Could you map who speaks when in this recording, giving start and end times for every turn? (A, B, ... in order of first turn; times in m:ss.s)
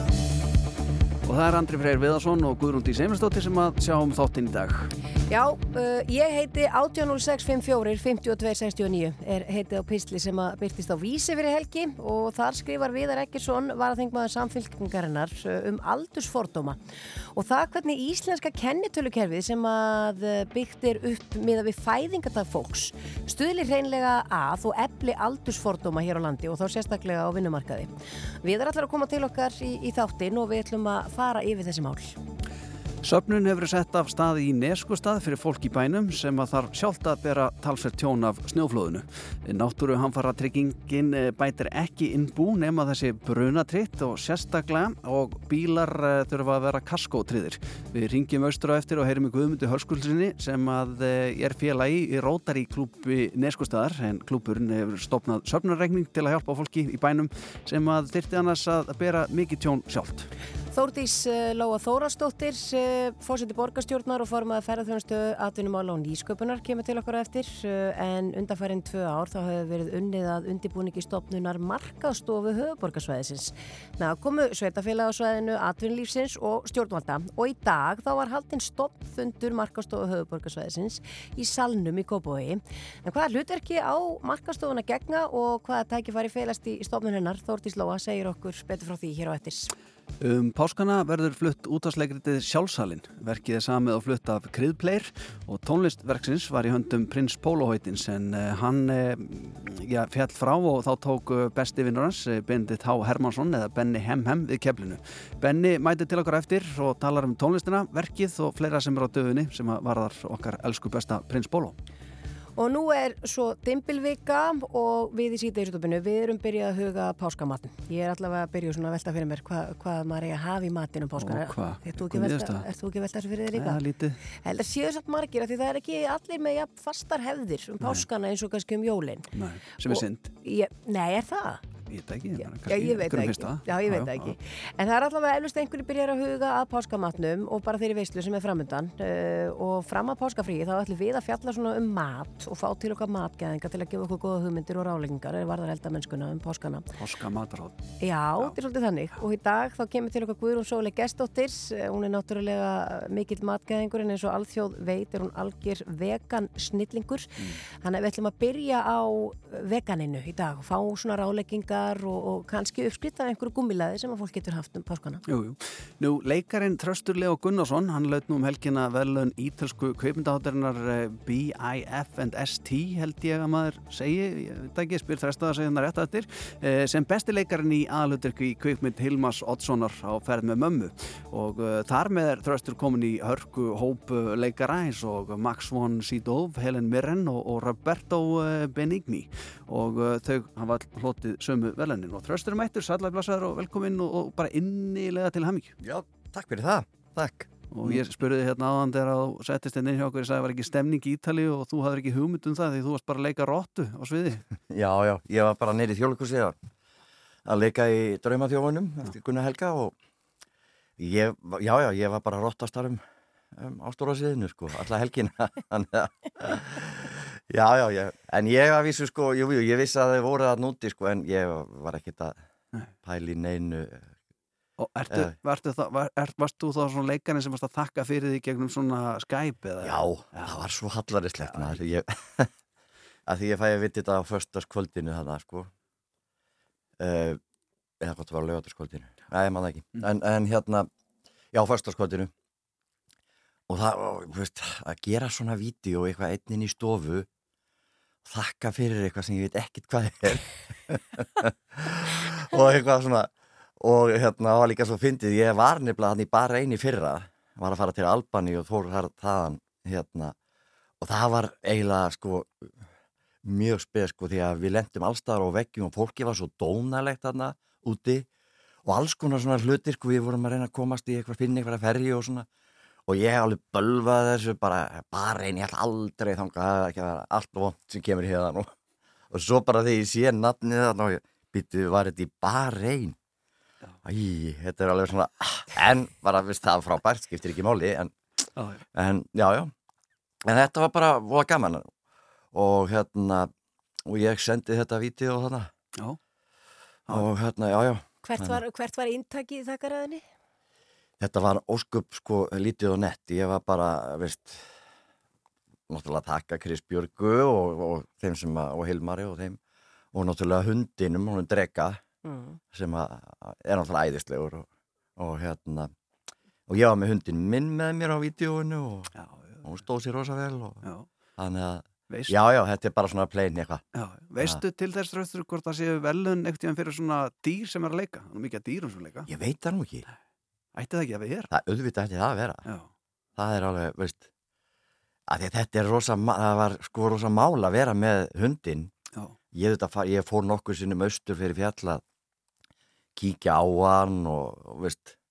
0:01.3-0:04.9 A
0:05.3-0:16.8 B
0:17.3-0:27.9 B
0:28.4-0:32.2 B
0:33.0-1:00.3 A
1:00.7-1:29.7 B
1:30.2-1:51.8 A
1:52.6-2:03.8 B
2:01.2-2:02.7 A
2:03.5-2:04.2 A
2:04.3-2:09.3 B
2:09.3-2:10.3 A
2:09.9-2:11.6 B
2:11.9-2:14.3 A
2:12.7-2:26.9 B
2:27.0-2:27.9 A
2:28.0-2:45.2 B
2:45.3-3:15.8 A
3:15.8-3:18.0 C
3:17.7-3:24.4 A
3:24.7-3:26.6 C
3:27.5-3:30.0 C
3:31.0-3:33.0 C
3:33.5-3:42.4 C
3:43.0-3:44.1 C
3:44.8-3:50.6 A
3:49.8-3:52.5 C
3:51.4-3:51.8 A
3:53.3-3:55.7 C
3:57.0-3:57.4 C
3:58.0-4:00.9 C
4:01.5-4:02.3 C
4:03.7-4:07.3 C
4:08.2-4:20.4 C
4:21.0-4:22.7 C
4:23.4-4:28.3 C
4:28.8-4:32.5 C
4:33.1-4:38.7 C
4:39.3-4:43.2 C
4:44.0-4:48.2 C
4:48.6-4:48.8 A
4:49.0-4:49.7 C
4:50.4-4:51.9 C
4:52.5-4:53.5 C
4:54.1-4:55.7 C
4:57.1-4:58.6 C
4:58.2-5:00.2 B
5:01.2-5:04.7 C
5:05.9-5:09.6 C
5:10.1-5:12.0 C
5:12.2-5:12.6 B
5:12.7-5:15.9 C
5:16.7-5:19.1 C
5:19.2-5:19.6 A
5:19.6-5:20.8 C
5:21.4-5:23.8 C
5:22.1-5:22.4 A
5:24.0-5:29.3 A
5:29.3-5:30.1 C
5:30.8-5:31.5 A
5:31.5-5:32.6 C
5:33.4-5:34.3 C
5:35.3-5:38.9 C
5:39.5-5:42.0 C
5:43.2-5:45.2 C